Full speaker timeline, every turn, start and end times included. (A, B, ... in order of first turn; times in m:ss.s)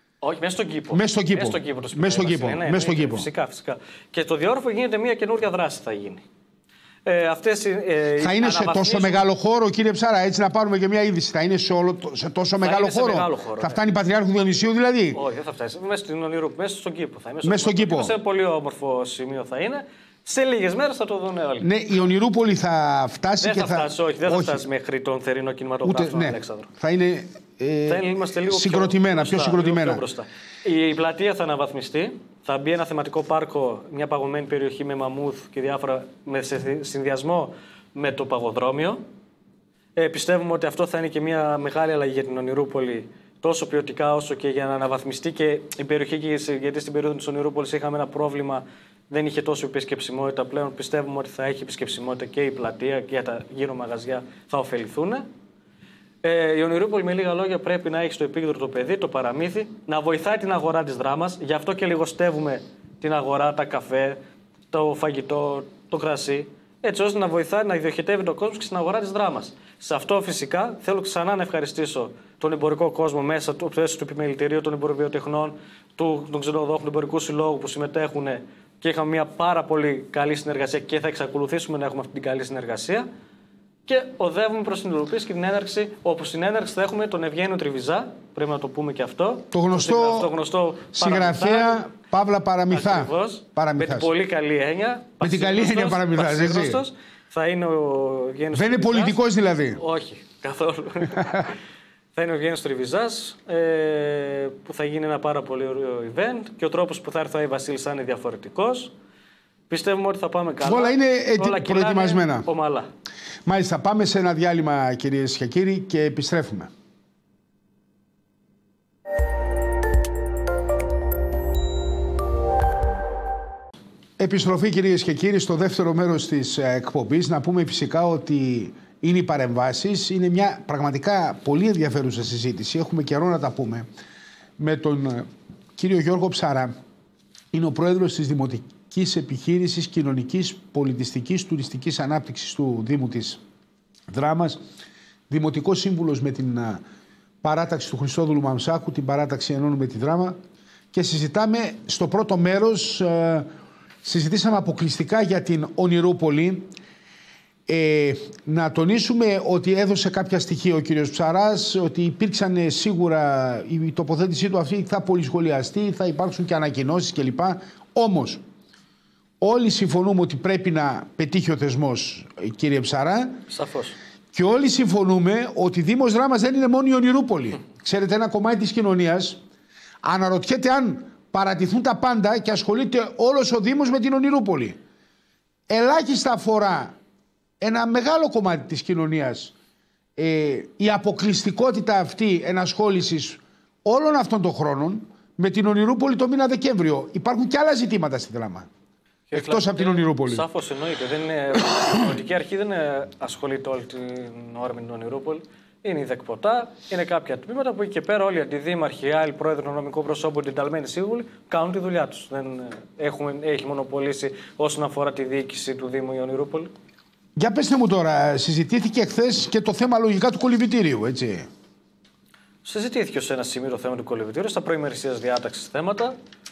0:00.2-0:06.2 A
0:00.9-0:03.3 B
0:07.1-0:09.3 A
0:08.2-0:15.2 B
0:12.6-0:13.8 A
0:15.2-0:21.7 A
0:17.4-0:18.1 B
0:21.6-0:24.6 B
0:23.4-0:26.7 A
0:25.8-0:30.0 B
0:27.9-0:39.0 A
0:40.0-0:55.3 A
0:56.2-1:04.2 A
1:04.7-1:23.1 A
1:23.9-1:31.9 A
1:29.5-1:30.3 B
1:30.9-1:34.1 B
1:32.7-1:39.2 A
1:35.2-1:36.8 B
1:38.5-1:39.8 B
1:39.8-1:41.5 A
1:42.2-1:48.9 A
1:49.7-1:52.9 A
1:50.6-1:52.5 B
1:53.4-1:56.7 B
2:04.2-2:13.9 B
2:14.6-2:16.7 B
2:17.5-2:23.4 B
2:24.1-2:24.6 B
2:25.3-2:26.8 B
2:27.4-2:30.4 B
2:30.9-2:33.5 B
2:34.0-2:36.7 B
2:37.7-2:48.4 B
2:49.4-2:53.4 B
2:53.5-2:54.0 A
2:54.3-2:59.4 B
3:00.0-3:04.8 B
3:05.7-3:07.0 B
3:07.6-3:09.5 B
3:10.2-3:18.7 B
3:19.3-3:36.7 A
3:19.3-3:20.5 B
3:37.4-3:41.5 B
3:42.6-3:46.2 A